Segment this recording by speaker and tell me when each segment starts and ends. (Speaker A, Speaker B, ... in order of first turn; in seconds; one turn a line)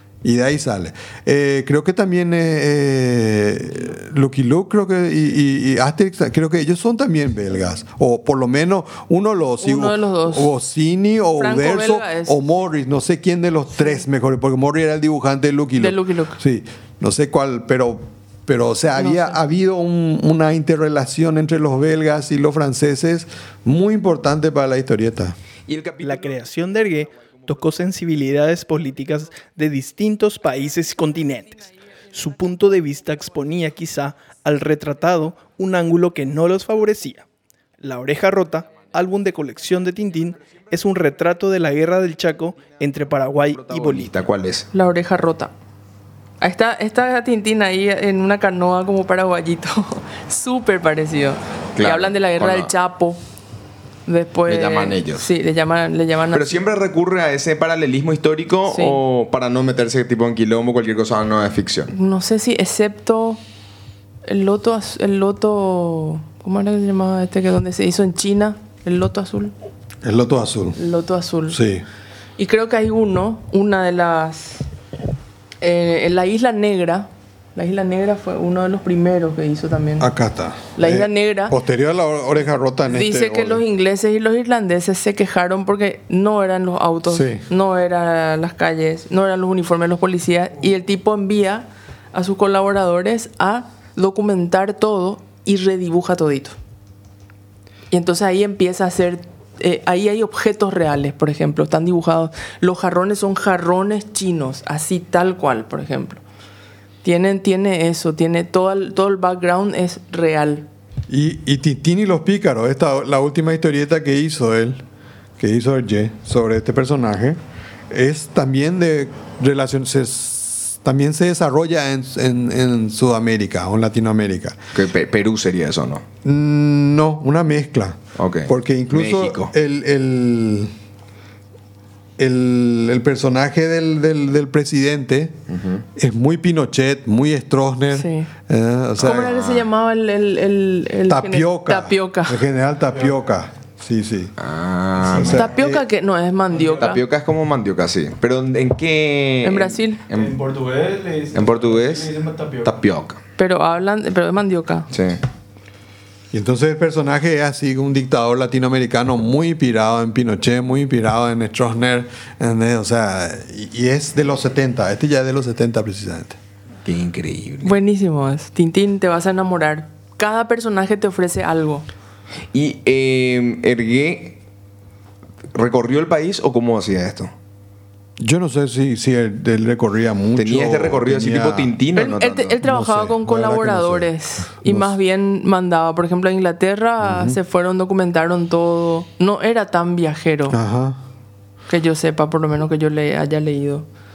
Speaker A: 0.2-25.4
Speaker B: 9.6-10.5
Speaker B: 11.3-12.4
Speaker B: 13.8-14.0
Speaker B: 15.8-16.4
Speaker B: 19.0-19.4
Speaker C: 25.7-26.9
Speaker D: 26.0-37.2
Speaker D: 37.8-44.2
Speaker C: 43.4-44.7
Speaker B: 44.7-45.5
Speaker B: 46.4-53.2
Speaker C: 51.8-52.7
Speaker B: 54.1-56.6
Speaker C: 54.5-55.3
Speaker C: 56.3-61.9
Speaker B: 58.7-59.0
Speaker B: 61.9-63.4
Speaker B: 64.3-69.5
Speaker A: 70.0-70.8
Speaker B: 70.8-71.6
Speaker A: 71.5-71.8
Speaker B: 72.4-74.7
Speaker B: 75.6-80.1
Speaker A: 80.0-83.6
Speaker B: 80.8-81.6
Speaker B: 82.9-96.5
Speaker A: 87.1-87.4
Speaker B: 97.9-106.2
Speaker B: 107.0-110.7
Speaker A: 111.1-114.8
Speaker A: 115.4-117.4
Speaker A: 117.9-124.6
Speaker C: 124.7-126.0
Speaker A: 126.2-130.7
Speaker C: 128.2-129.5
Speaker A: 132.2-135.4
Speaker C: 135.5-135.8
Speaker A: 135.9-139.4
Speaker B: 137.9-138.3
Speaker B: 139.0-142.4
Speaker C: 139.0-139.7
Speaker A: 141.1-144.3
Speaker C: 144.4-145.4
Speaker A: 145.0-145.8
Speaker B: 145.2-147.0
Speaker C: 146.7-150.4
Speaker B: 149.4-150.0
Speaker D: 150.1-152.7
Speaker C: 151.3-153.2
Speaker B: 153.4-154.9
Speaker C: 154.9-155.2
Speaker A: 156.3-166.4
Speaker C: 166.8-167.8
Speaker B: 167.6-171.8
Speaker C: 172.5-174.4
Speaker C: 175.5-177.3
Speaker A: 178.2-181.8
Speaker C: 180.4-182.6
Speaker B: 181.9-190.6
Speaker A: 182.6-185.0
Speaker A: 187.0-187.4
Speaker A: 190.5-191.0
Speaker B: 191.7-193.9